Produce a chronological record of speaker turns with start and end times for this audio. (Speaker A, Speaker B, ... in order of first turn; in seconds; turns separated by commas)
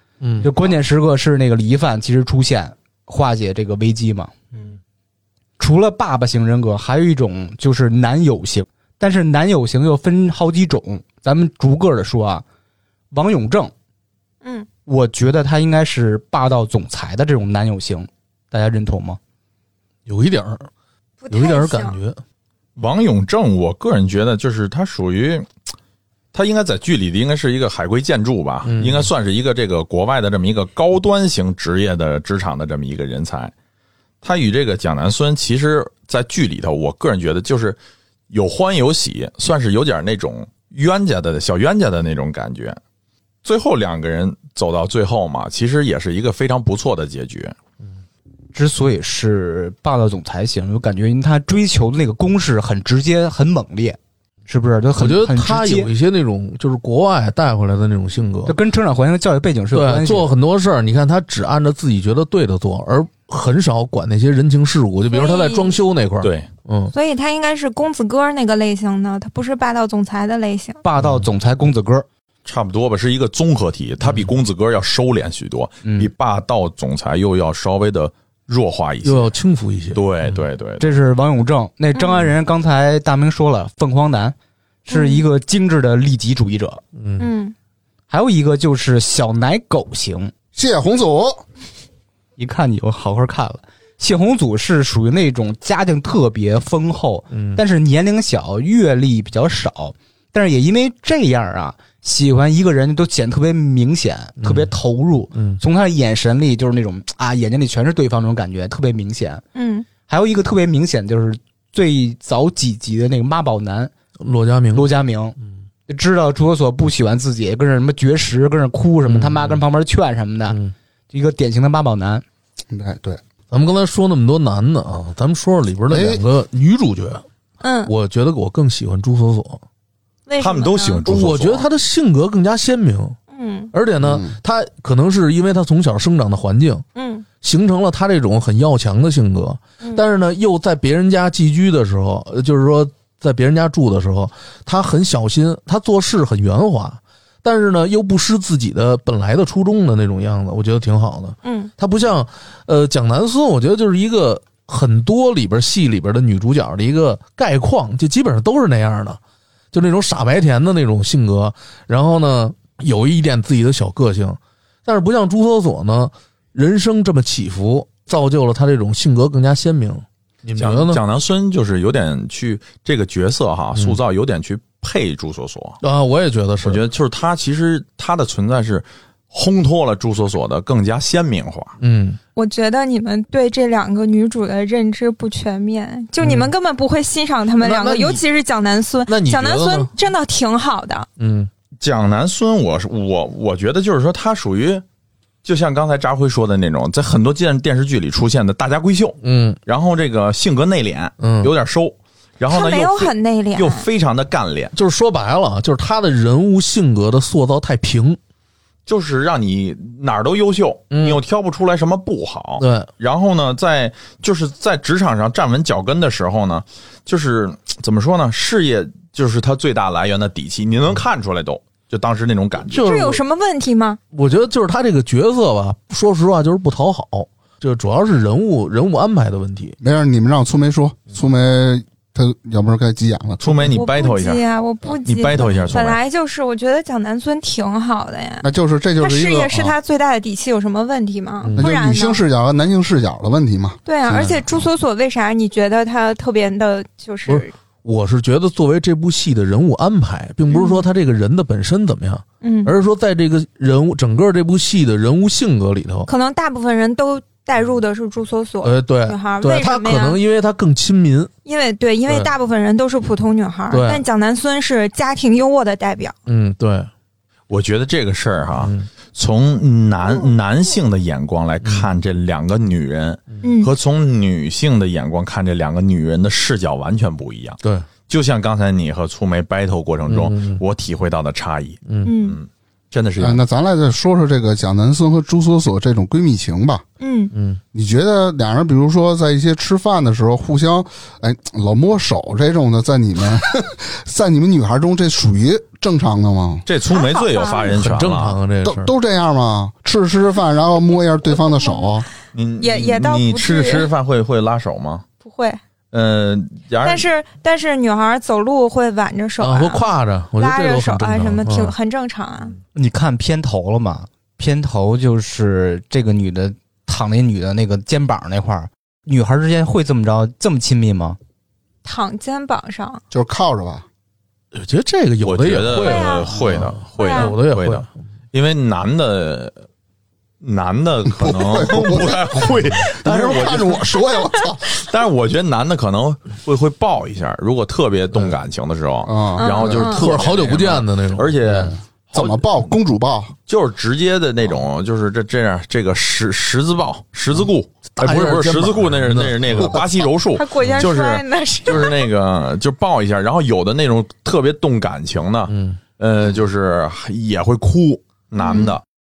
Speaker A: 0.2-0.5, Speaker B: 0.4-4.5, Speaker B: 5.6-12.4, Speaker B: 13.1-13.7, Speaker C: 14.4-14.7, Speaker B: 14.9-19.2, Speaker A: 20.1-20.7, Speaker C: 21.2-22.0, Speaker A: 21.3-22.2, Speaker D: 22.8-25.5, Speaker D: 26.3-33.5, Speaker A: 28.6-29.1, Speaker D: 34.2-37.8, Speaker D: 38.3-42.8, Speaker D: 43.4-47.5, Speaker B: 48.5-55.9, Speaker A: 55.0-58.5, Speaker B: 58.5-60.3, Speaker A: 59.7-66.9, Speaker C: 65.1-65.7, Speaker D: 66.2-66.5, Speaker C: 66.9-70.8, Speaker B: 70.8-72.0, Speaker D: 72.5-79.3, Speaker B: 75.8-76.1, Speaker A: 79.0-80.3, Speaker D: 79.9-80.8, Speaker B: 80.8-84.3, Speaker B: 84.9-86.8, Speaker C: 84.9-85.2, Speaker A: 86.9-87.3, Speaker C: 87.2-87.5, Speaker B: 88.1-90.3, Speaker E: 90.5-91.4, Speaker B: 92.4-109.4, Speaker A: 97.3-97.6, Speaker A: 104.4-104.7, Speaker A: 105.3-105.6, Speaker C: 109.5-109.9, Speaker B: 110.0-113.9, Speaker A: 114.2-114.9, Speaker B: 114.7-115.3, Speaker B: 115.9-120.6, Speaker A: 119.0-119.6, Speaker B: 121.1-122.2, Speaker E: 122.7-123.2, Speaker A: 123.5-127.2, Speaker E: 125.9-126.2, Speaker C: 127.6-127.9, Speaker A: 127.8-129.6, Speaker C: 130.3-131.1, Speaker D: 130.4-131.7, Speaker A: 131.1-133.2, Speaker C: 133.3-133.7, Speaker A: 133.7-136.8, Speaker E: 134.0-134.3, Speaker C: 136.9-137.2, Speaker A: 137.4-159.2, Speaker C: 151.4-151.7, Speaker A: 159.7-171.0, Speaker D: 170.6-175.8, Speaker A: 175.8-176.8, Speaker D: 176.6-181.8, Speaker A: 181.8-182.2, Speaker C: 182.3-191.1, Speaker A: 186.2-186.5, Speaker A: 187.6-188.2, Speaker A: 189.1-189.9, Speaker A: 191.2-191.5, Speaker D: 191.8-194.8, Speaker D: 195.4-204.7, Speaker A: 199.2-199.6, Speaker A: 201.2-201.5, Speaker C: 202.5-203.8, Speaker A: 204.7-208.2, Speaker D: 208.8-223.1, Speaker A: 210.9-211.2, Speaker A: 212.6-212.9, Speaker A: 222.7-223.2, Speaker C: 222.8-224.0, Speaker A: 224.1-229.8, Speaker E: 229.8-233.7, Speaker D: 233.4-234.4, Speaker C: 233.6-238.5, Speaker D: 235.0-236.0, Speaker E: 238.4-239.7, Speaker C: 239.0-242.2, Speaker A: 241.4-241.7, Speaker E: 241.6-244.7, Speaker C: 243.8-247.5, Speaker A: 247.2-256.1, Speaker C: 250.5-250.8, Speaker C: 252.4-252.7, Speaker C: 256.1-260.2, Speaker A: 258.6-261.3, Speaker C: 261.4-266.1, Speaker A: 263.7-264.0, Speaker A: 266.3-266.9, Speaker D: 267.5-283.4, Speaker A: 268.6-268.9, Speaker C: 273.4-273.7, Speaker A: 277.6-277.9, Speaker A: 280.1-280.6, Speaker A: 281.9-282.1, Speaker C: 282.0-282.4, Speaker E: 283.2-286.8, Speaker C: 287.0-287.3, Speaker A: 287.3-287.6, Speaker E: 287.7-296.6, Speaker D: 296.6-298.4, Speaker C: 296.9-297.7, Speaker A: 297.7-298.9, Speaker E: 298.6-302.1, Speaker C: 301.5-301.9, Speaker D: 302.3-305.1, Speaker C: 302.6-303.9, Speaker C: 305.2-305.6, Speaker D: 305.9-307.1, Speaker C: 306.8-312.5, Speaker A: 309.4-311.7, Speaker B: 312.7-321.2, Speaker C: 321.8-323.0, Speaker E: 323.1-323.9, Speaker A: 324.5-327.9, Speaker D: 325.2-329.5, Speaker C: 325.7-327.4, Speaker D: 330.4-333.9, Speaker E: 331.1-334.8, Speaker D: 334.7-342.5, Speaker E: 339.1-340.0, Speaker C: 339.4-340.1, Speaker A: 339.9-341.7, Speaker E: 341.6-343.3, Speaker D: 343.5-358.8, Speaker A: 347.9-349.8, Speaker C: 350.3-352.1, Speaker A: 355.5-355.8, Speaker C: 358.4-358.8